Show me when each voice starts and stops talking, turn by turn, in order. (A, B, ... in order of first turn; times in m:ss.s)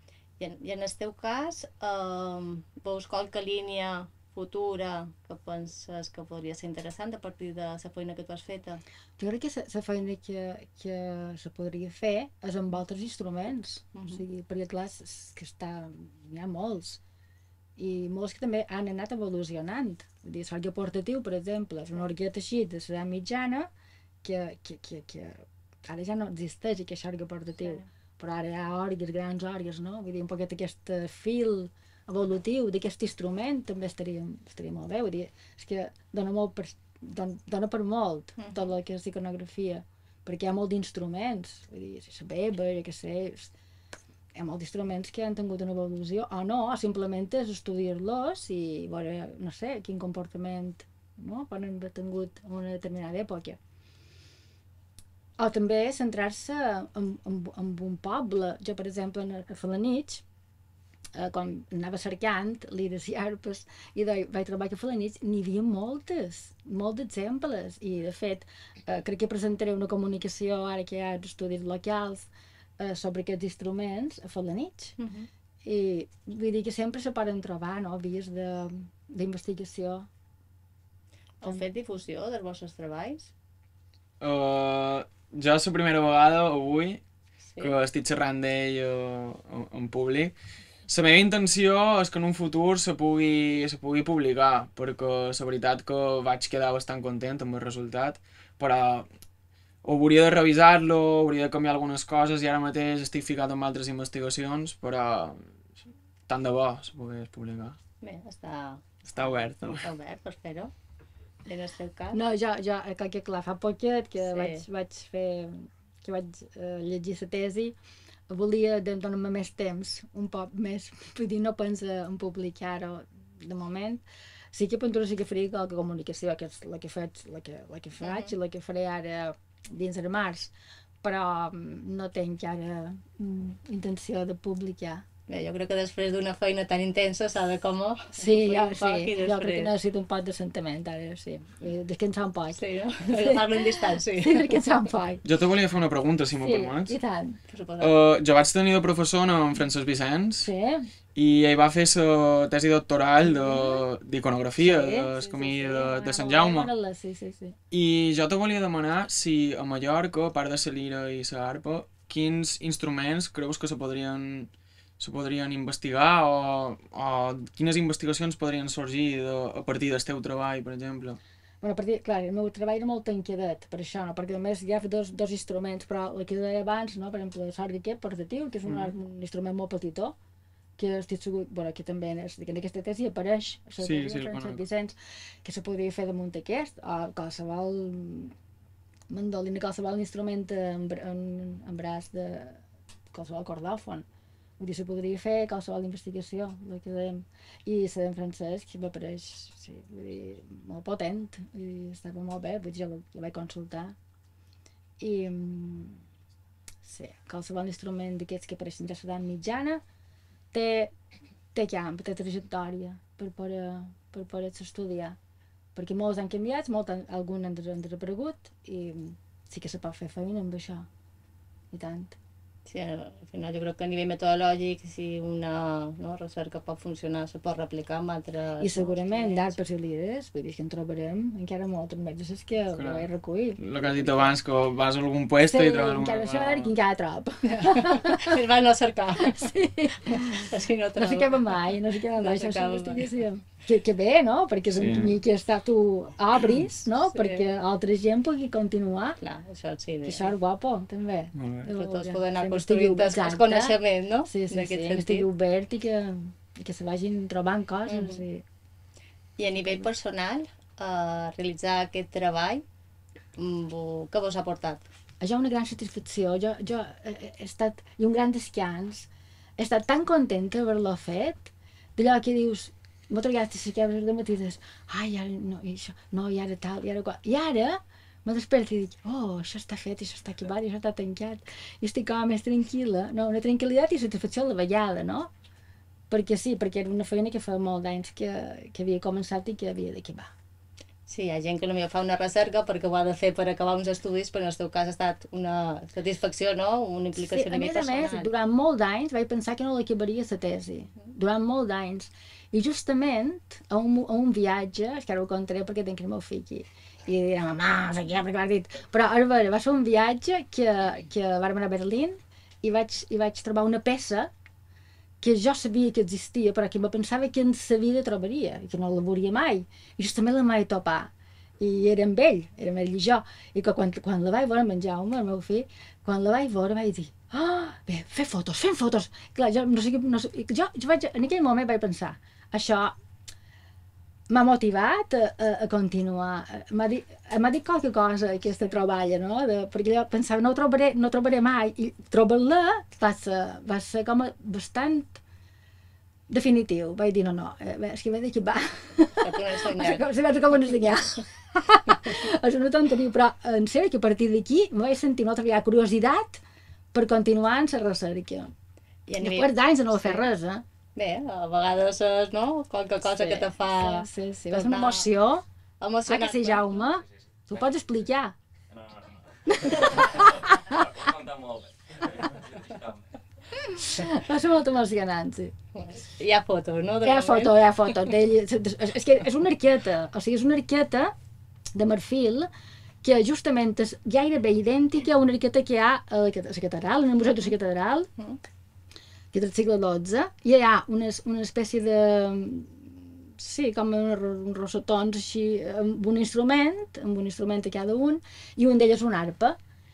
0:00.4-0:08.8 A
0:09.2-0:17.0 B
0:13.9-0:14.2 A
0:17.8-0:23.7 B
0:24.2-0:43.5 B
0:27.6-0:27.8 A
0:38.4-0:38.6 A
0:44.3-0:53.6 B
0:55.4-1:00.2 B
1:01.1-1:15.0 B
1:15.0-1:15.3 A
1:15.6-1:20.1 B
1:21.4-1:23.3 A
1:21.4-1:21.7 B
1:24.2-1:27.0 C
1:27.6-1:30.3 C
1:30.9-1:39.1 C
1:39.8-1:45.4 C
1:46.3-1:47.8 C
1:48.0-1:50.7 A
1:49.0-1:49.8 C
1:51.5-1:52.2 A
1:52.1-1:57.8 B
1:54.2-1:54.6 A
1:58.3-2:15.0 B
2:08.0-2:08.3 A
2:15.3-2:19.7 A
2:18.1-2:25.2 B
2:22.5-2:24.6 A
2:25.2-2:27.0 C
2:26.4-2:27.4 B
2:27.5-2:27.9 A
2:27.8-2:30.5 C
2:30.4-2:30.9 B
2:31.1-2:36.7 C
2:33.2-2:33.8 B
2:34.6-2:37.6 B
2:37.7-2:51.2 C
2:51.6-3:00.2 B
2:58.6-2:58.9 C
3:00.8-3:08.4 B
3:03.8-3:04.6 C
3:09.1-3:14.0 B
3:14.6-3:23.9 B
3:25.0-3:26.0 B
3:26.8-3:29.8 B
3:30.5-3:30.9 B
3:31.5-3:35.2 B
3:35.7-3:40.9 B
3:41.7-3:42.2 B
3:42.6-3:49.6 A
3:48.6-3:53.6 B
3:52.7-3:56.7 C
3:55.4-3:58.4 B
3:57.4-3:59.5 A
3:59.2-4:09.2 B
4:00.1-4:03.1 A
4:04.7-4:05.2 C
4:07.1-4:07.4 A
4:09.2-4:10.4 A
4:10.0-4:18.4 B
4:11.3-4:11.7 C
4:11.7-4:15.3 A
4:17.8-4:18.2 A
4:19.4-4:22.6 A
4:23.3-4:24.9 A
4:25.2-4:45.3 B
4:46.1-4:50.3 B
4:51.1-4:58.3 A
4:57.2-5:14.3 B
5:15.2-5:32.9 B
5:34.3-5:45.2 B
5:46.3-5:56.4 B
5:49.2-5:50.0 A
5:56.9-5:58.5 B
5:59.1-6:00.3 A
5:59.2-6:00.6 B
6:01.0-6:05.1 A
6:03.1-6:05.4 B
6:05.8-6:06.9 A
6:06.1-6:08.3 B
6:09.5-6:11.0 B
6:10.9-6:12.9 D
6:13.7-6:15.5 B
6:15.7-6:18.1 A
6:17.0-6:21.1 B
6:21.7-6:22.5 B
6:23.0-6:28.1 B
6:29.3-6:39.6 B